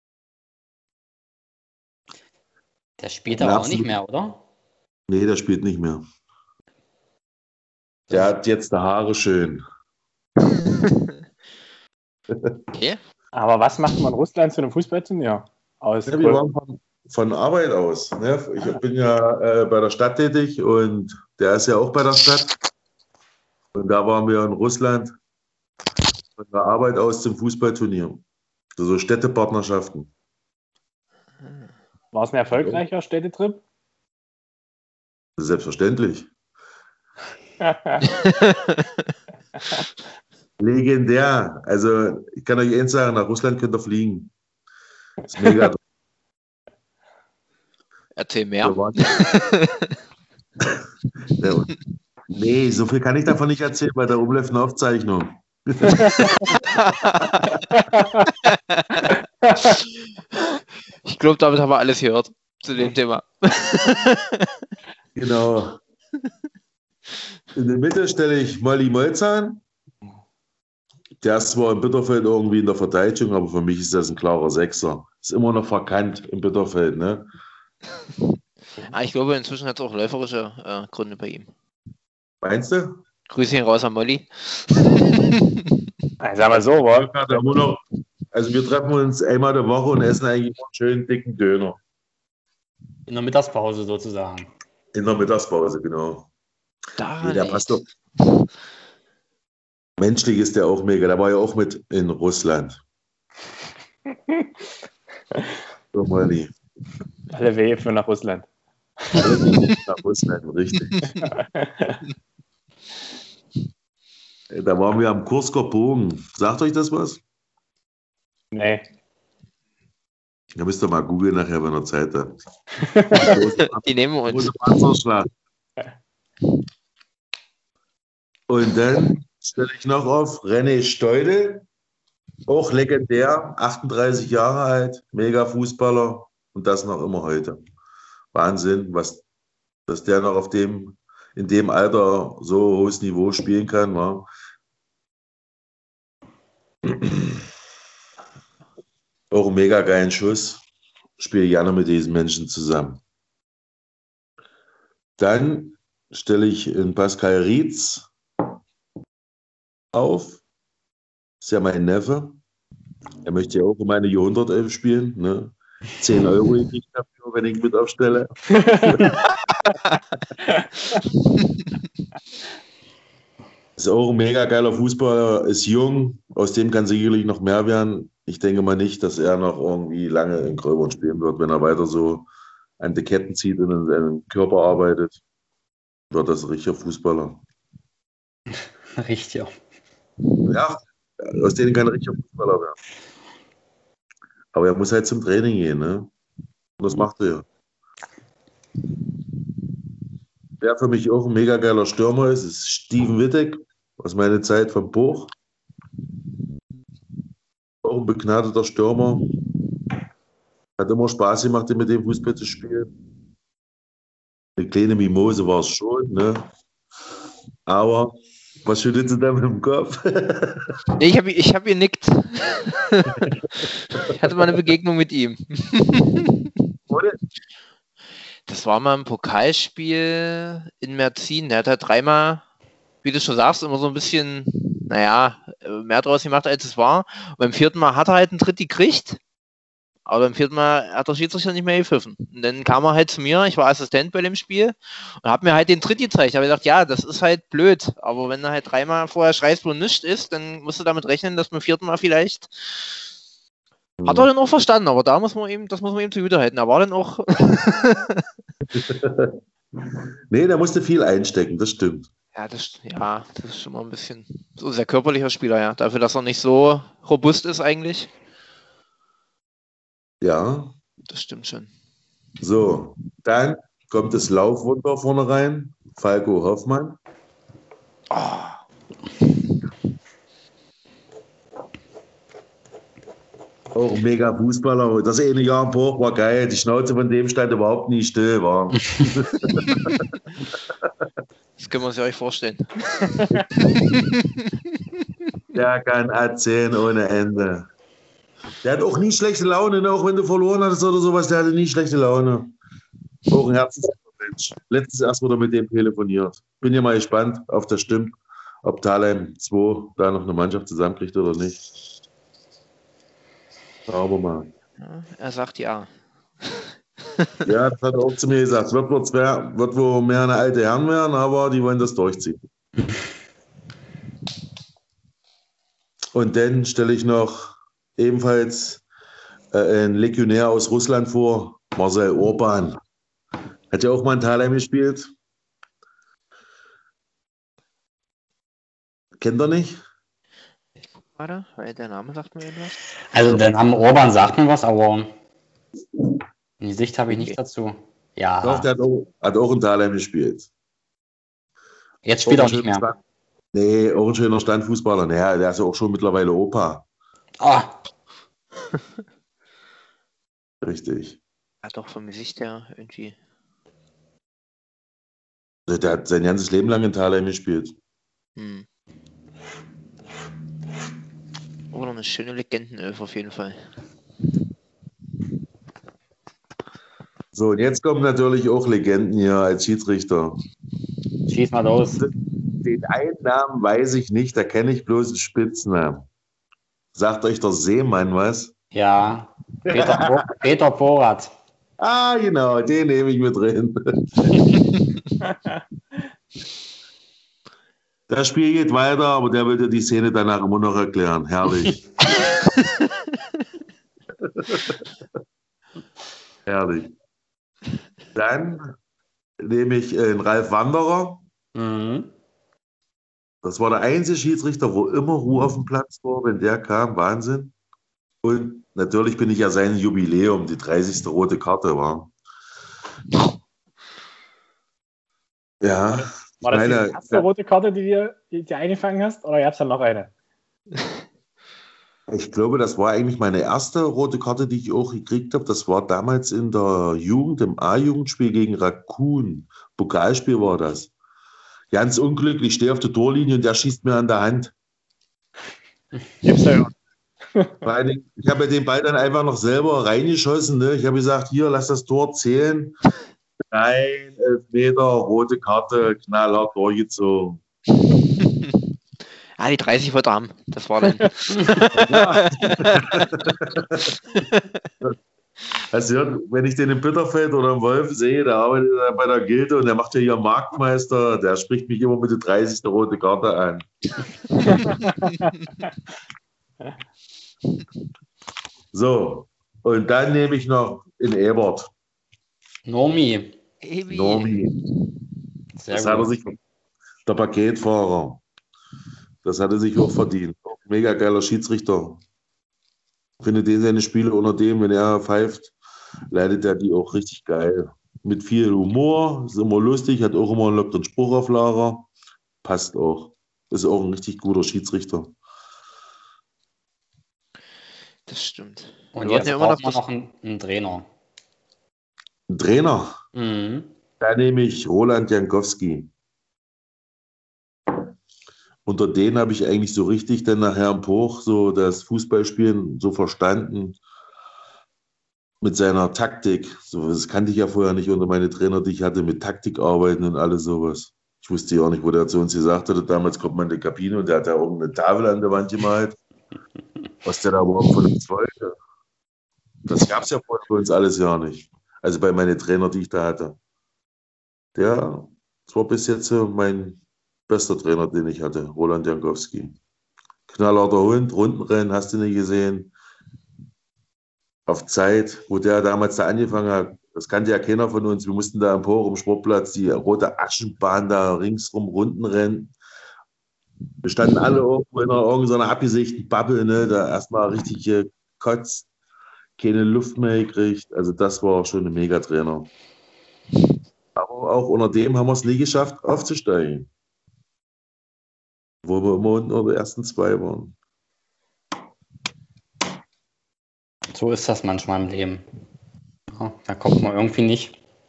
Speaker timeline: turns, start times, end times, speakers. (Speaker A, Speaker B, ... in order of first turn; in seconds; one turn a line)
Speaker A: 3.0-4.4
Speaker B: 3.3-3.9
Speaker B: 5.1-6.0
Speaker B: 8.1-9.6
Speaker B: 12.3-12.6
Speaker C: 12.7-13.0
Speaker D: 13.3-16.4
Speaker B: 16.1-22.6
Speaker B: 23.7-25.1
Speaker B: 26.4-28.2
Speaker B: 28.8-30.1
Speaker D: 32.1-33.6
Speaker B: 32.5-32.8
Speaker B: 35.4-36.3
Speaker D: 37.6-38.0
Speaker C: 38.0-38.9
Speaker B: 40.6-44.3
Speaker B: 45.3-45.8
Speaker C: 48.2-49.9
Speaker B: 48.6-49.0
Speaker B: 51.4-51.7
Speaker B: 52.3-56.6
Speaker D: 55.9-56.5
Speaker C: 56.6-57.5
Speaker D: 57.7-58.2
Speaker C: 58.4-64.5
Speaker B: 65.1-65.8
Speaker B: 67.5-69.6
Speaker B: 71.2-77.3
Speaker C: 78.9-81.5
Speaker B: 82.4-83.0
Speaker C: 83.3-85.6
Speaker D: 86.2-87.5
Speaker B: 86.8-87.8
Speaker B: 88.3-91.8
Speaker A: 93.1-94.5
Speaker B: 94.9-96.3
Speaker C: 97.0-97.8
Speaker B: 97.2-97.8
Speaker B: 100.0-102.8
Speaker D: 105.3-105.6
Speaker B: 105.9-106.5
Speaker D: 107.3-108.5
Speaker D: 109.0-109.4
Speaker B: 109.1-111.1
Speaker C: 110.9-111.3
Speaker D: 111.2-112.0
Speaker B: 114.5-117.2
Speaker D: 118.5-118.8
Speaker B: 120.5-122.4
Speaker D: 122.8-123.3
Speaker B: 123.1-125.3
Speaker C: 123.7-124.5
Speaker B: 128.5-131.7
Speaker B: 132.5-137.6
Speaker B: 138.3-139.2
Speaker B: 139.9-144.3
Speaker B: 146.8-147.4
Speaker B: 149.3-150.6
Speaker B: 151.2-153.0
Speaker B: 155.2-158.1
Speaker B: 159.9-160.4
Speaker B: 161.4-162.4
Speaker B: 163.2-169.2
Speaker D: 168.6-169.1
Speaker C: 171.4-171.7
Speaker B: 173.8-182.3
Speaker B: 182.8-185.2
Speaker B: 186.1-187.4
Speaker A: 189.0-189.5
Speaker B: 190.4-192.8
Speaker B: 194.5-196.1
Speaker B: 196.8-197.4
Speaker B: 200.6-205.3
Speaker B: 207.8-209.2
Speaker B: 210.8-212.9
Speaker B: 214.6-216.4
Speaker B: 217.7-220.7
Speaker C: 221.0-223.2
Speaker C: 223.9-226.5
Speaker B: 226.9-227.2
Speaker C: 228.5-232.4
Speaker C: 233.0-239.2
Speaker C: 240.1-253.0
Speaker B: 254.0-254.3
Speaker C: 254.0-258.2
Speaker B: 258.7-262.1
Speaker C: 262.3-268.1
Speaker B: 270.2-270.7
Speaker C: 271.1-271.7
Speaker B: 272.4-277.0
Speaker C: 278.1-278.6
Speaker B: 283.7-290.0
Speaker C: 291.6-294.6
Speaker D: 293.2-293.4
Speaker B: 295.5-297.7
Speaker B: 298.6-302.5
Speaker B: 303.3-311.6
Speaker B: 313.9-314.5
Speaker C: 314.8-315.9
Speaker C: 316.4-317.3
Speaker B: 317.4-322.4
Speaker B: 326.1-328.8
Speaker B: 329.5-332.8
Speaker B: 333.7-335.1
Speaker B: 339.2-339.8
Speaker C: 341.1-342.8
Speaker A: 343.1-345.1
Speaker A: 346.6-348.7
Speaker C: 347.1-347.4
Speaker B: 348.4-350.5
Speaker A: 352.0-352.9
Speaker B: 352.2-353.0
Speaker B: 353.5-356.9
Speaker A: 357.4-357.7
Speaker B: 360.6-361.2
Speaker C: 361.6-363.1
Speaker B: 365.7-367.7
Speaker C: 368.4-368.6
Speaker C: 371.7-373.6
Speaker B: 377.3-380.4
Speaker A: 381.3-382.0
Speaker B: 382.0-386.1
Speaker B: 386.9-388.5
Speaker A: 388.7-391.3
Speaker B: 389.6-390.2
Speaker B: 391.8-394.5
Speaker D: 395.2-395.6
Speaker B: 398.1-401.9
Speaker B: 404.2-404.8
Speaker B: 406.4-406.9
Speaker B: 408.1-408.7
Speaker B: 409.4-411.2
Speaker A: 411.5-412.1
Speaker B: 413.4-417.5
Speaker B: 418.2-422.1
Speaker B: 425.6-427.3
Speaker D: 425.9-430.1
Speaker B: 432.1-440.9
Speaker B: 441.7-444.5
Speaker D: 446.2-446.7
Speaker B: 447.6-452.7
Speaker B: 453.5-457.4
Speaker C: 458.2-458.5
Speaker C: 459.4-463.0
Speaker B: 461.7-463.9
Speaker C: 464.1-464.7
Speaker B: 465.7-473.7
Speaker D: 474.5-474.9
Speaker B: 478.7-481.7
Speaker A: 482.6-483.4
Speaker C: 483.6-484.5
Speaker B: 483.9-484.5
Speaker A: 485.6-486.1
Speaker B: 485.7-486.4
Speaker B: 487.1-488.2
Speaker B: 489.2-492.0
Speaker B: 493.2-495.5
Speaker B: 496.1-501.9
Speaker B: 502.4-505.1
Speaker C: 508.1-509.8
Speaker A: 508.9-510.9
Speaker B: 512.3-513.0
Speaker A: 513.1-513.7
Speaker B: 514.0-515.9
Speaker B: 518.6-523.8
Speaker B: 525.4-536.0
Speaker B: 537.0-538.5
Speaker B: 539.7-543.4
Speaker B: 544.5-549.6
Speaker B: 550.3-552.7
Speaker B: 554.5-562.5
Speaker B: 563.8-568.7
Speaker B: 569.4-572.5
Speaker B: 573.9-576.7
Speaker B: 578.6-580.5
Speaker A: 583.9-585.2
Speaker A: 586.1-587.5